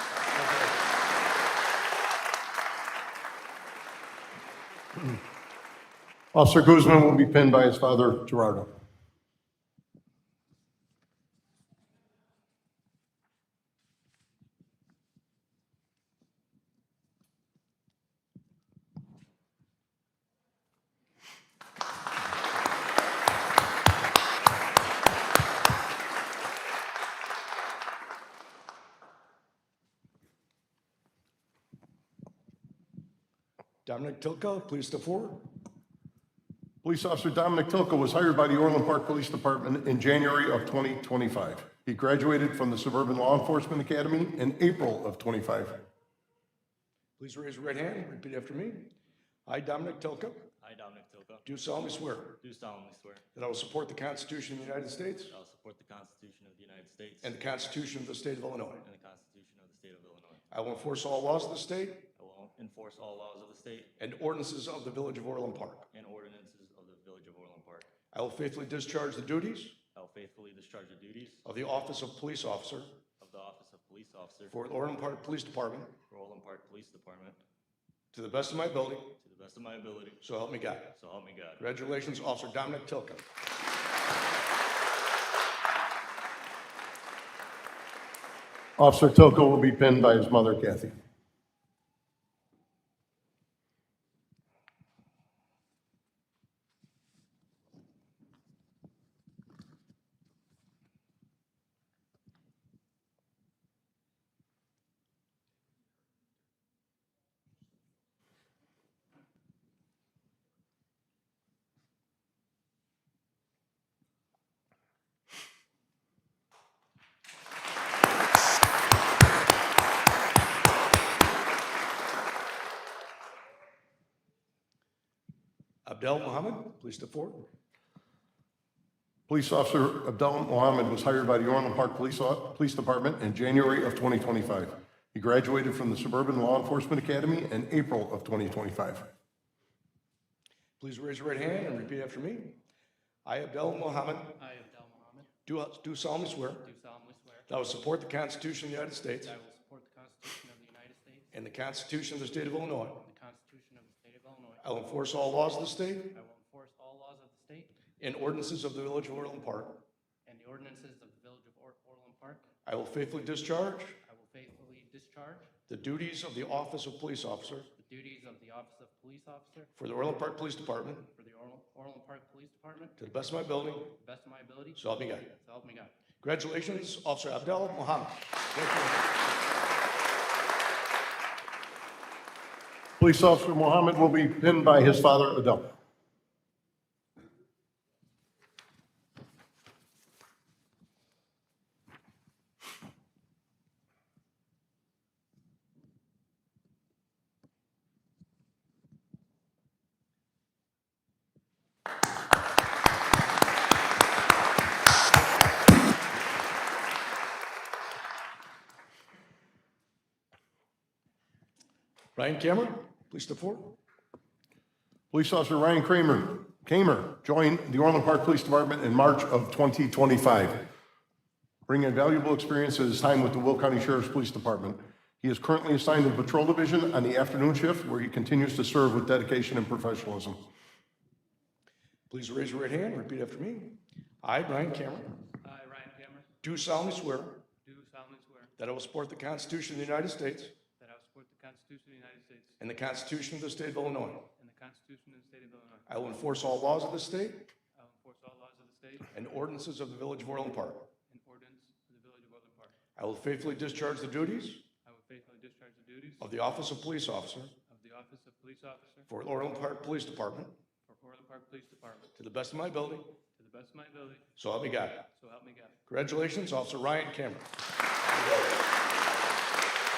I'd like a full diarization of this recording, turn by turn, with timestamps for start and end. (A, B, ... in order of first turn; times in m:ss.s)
0:00.3-0:00.8 A
0:06.3-0:08.7 B
0:33.8-0:35.5 A
0:36.8-0:45.8 B
0:47.2-0:48.9 A
0:49.5-0:50.5 A
0:50.6-0:51.5 C
0:51.4-0:52.4 A
0:52.4-0:53.2 C
0:53.3-0:55.3 A
0:55.3-0:57.4 C
0:57.2-0:58.8 A
0:58.8-1:00.4 C
1:00.5-1:02.1 A
1:02.2-1:03.9 C
1:04.0-1:05.9 A
1:05.9-1:07.9 C
1:08.1-1:09.8 A
1:09.9-1:11.4 C
1:11.4-1:13.0 A
1:13.2-1:14.6 C
1:14.5-1:16.0 A
1:16.1-1:17.4 C
1:18.1-1:19.2 A
1:19.2-1:20.3 C
1:20.2-1:20.9 A
1:20.9-1:21.6 C
1:21.6-1:23.2 A
1:28.8-1:31.0 B
2:05.8-2:07.5 A
2:09.3-2:19.1 B
2:20.8-2:22.6 A
2:23.2-2:24.4 A
2:24.4-2:25.3 D
2:25.5-2:26.7 A
2:26.4-2:27.5 D
2:27.5-2:29.3 A
2:29.1-2:31.4 D
2:31.3-2:33.0 A
2:32.7-2:34.8 D
2:34.6-2:36.2 A
2:36.1-2:37.8 D
2:38.0-2:39.8 A
2:40.2-2:42.5 D
2:42.6-2:44.0 A
2:44.0-2:45.6 D
2:45.7-2:47.7 A
2:47.7-2:49.7 D
2:49.8-2:51.1 A
2:51.1-2:53.0 D
2:53.0-2:54.0 A
2:53.8-2:56.0 D
2:54.8-2:55.3 A
2:56.2-2:59.1 A
2:59.3-2:59.6 D
3:03.0-3:05.7 B
3:32.2-3:33.8 A
3:35.1-3:40.6 B
3:41.7-3:50.4 B
3:52.1-3:55.2 A
3:55.4-3:56.3 D
3:56.4-3:57.4 A
3:57.6-3:58.5 D
3:58.6-4:00.6 A
4:00.8-4:02.6 D
4:02.6-4:04.3 A
4:04.4-4:05.9 D
4:05.9-4:07.5 A
4:07.8-4:09.1 D
4:09.1-4:10.9 A
4:11.1-4:12.7 D
4:13.0-4:14.6 A
4:14.8-4:16.3 D
4:16.2-4:17.5 A
4:17.7-4:19.1 D
4:19.1-4:20.6 A
4:20.9-4:22.1 D
4:22.2-4:23.2 A
4:23.3-4:24.3 D
4:24.4-4:25.1 A
4:25.1-4:25.8 D
4:25.9-4:27.5 A